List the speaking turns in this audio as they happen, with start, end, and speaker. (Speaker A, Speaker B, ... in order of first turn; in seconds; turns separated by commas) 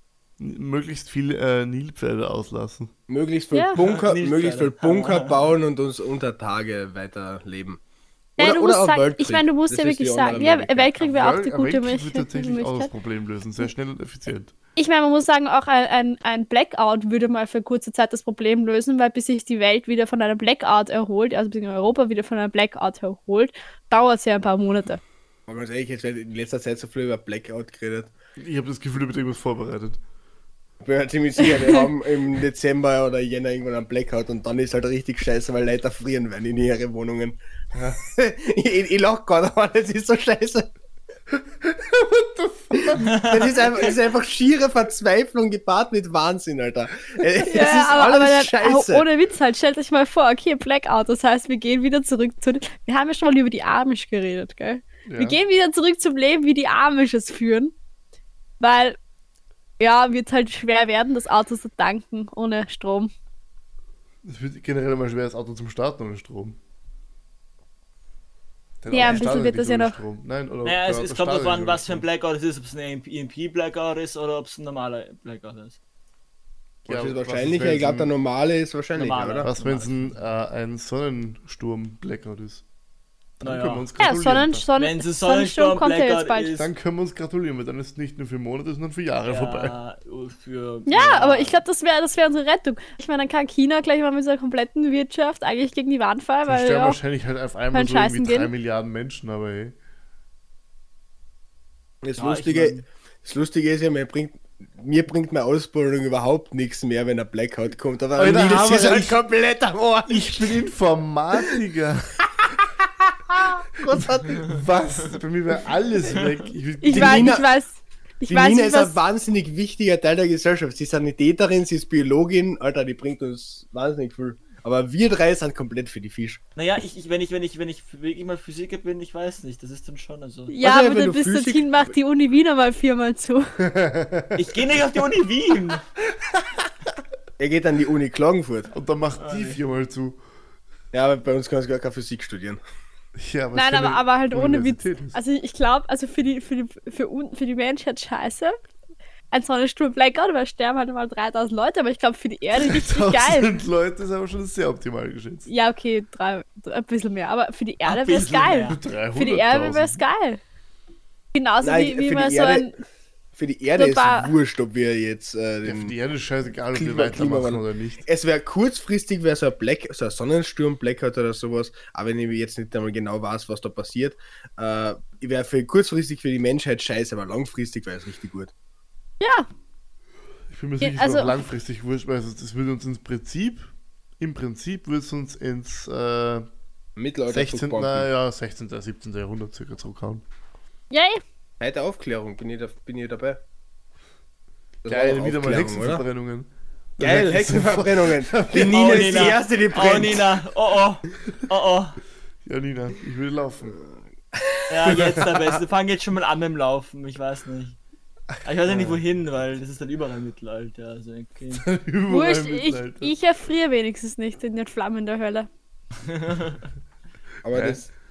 Speaker A: 0.4-2.9, Speaker B: 3.1-7.8, Speaker C: 3.5-3.8, Speaker D: 3.8-5.5, Speaker B: 8.4-10.9, Speaker C: 8.4-12.9, Speaker A: 11.0-14.5, Speaker C: 14.8-25.0, Speaker B: 25.5-28.1, Speaker A: 28.4-30.0, Speaker B: 30.8-37.4, Speaker B: 37.9-40.7, Speaker A: 41.6-43.0, Speaker B: 42.8-49.0, Speaker D: 43.0-43.5, Speaker C: 47.4-57.7, Speaker A: 55.0-55.4, Speaker C: 58.6-59.0, Speaker C: 59.8-63.1, Speaker A: 64.2-66.6, Speaker A: 68.8-72.0, Speaker C: 68.9-70.0, Speaker D: 70.6-75.8, Speaker B: 76.8-79.5, Speaker A: 76.9-78.1, Speaker D: 78.9-80.2, Speaker A: 79.4-82.6, Speaker A: 83.4-84.7, Speaker D: 83.4-83.9, Speaker C: 84.0-86.5, Speaker D: 84.8-86.7, Speaker A: 86.5-89.8, Speaker D: 89.2-91.6, Speaker C: 90.9-97.0, Speaker A: 96.5-99.8, Speaker C: 97.7-98.5, Speaker B: 102.0-110.6, Speaker D: 102.2-102.8, Speaker A: 108.1-109.2, Speaker A: 110.1-112.2, Speaker B: 113.1-114.5, Speaker A: 113.8-117.4, Speaker D: 116.1-116.5, Speaker C: 116.8-119.0, Speaker B: 116.9-117.5, Speaker B: 118.3-126.4, Speaker D: 126.5-130.5, Speaker C: 130.5-133.5, Speaker B: 130.6-131.9, Speaker A: 133.6-134.8, Speaker D: 134.3-135.8, Speaker B: 137.4-138.7, Speaker A: 138.7-140.2, Speaker D: 139.2-139.6, Speaker B: 140.9-142.6, Speaker A: 143.2-145.2, Speaker C: 143.5-148.5, Speaker C: 149.3-153.5, Speaker A: 152.6-155.5, Speaker C: 155.5-160.4, Speaker D: 157.8-158.8, Speaker A: 158.6-160.0, Speaker C: 161.3-162.7, Speaker B: 161.6-162.7, Speaker B: 163.3-165.9, Speaker C: 163.8-164.3, Speaker A: 165.6-168.0, Speaker B: 166.7-178.5, Speaker C: 179.2-179.5, Speaker A: 180.5-186.4, Speaker C: 180.8-181.4, Speaker B: 186.9-188.1, Speaker A: 187.3-190.2, Speaker C: 190.9-191.2, Speaker B: 191.6-193.4, Speaker B: 194.8-196.0, Speaker A: 194.8-198.8, Speaker B: 197.0-200.4, Speaker D: 198.6-202.0, Speaker A: 202.4-203.8, Speaker B: 203.8-205.6, Speaker D: 204.7-207.8, Speaker A: 204.9-205.2, Speaker D: 208.4-211.7, Speaker A: 208.6-209.0, Speaker A: 211.5-213.1, Speaker C: 212.1-215.5, Speaker D: 216.0-216.6, Speaker B: 217.4-217.9, Speaker A: 217.5-217.8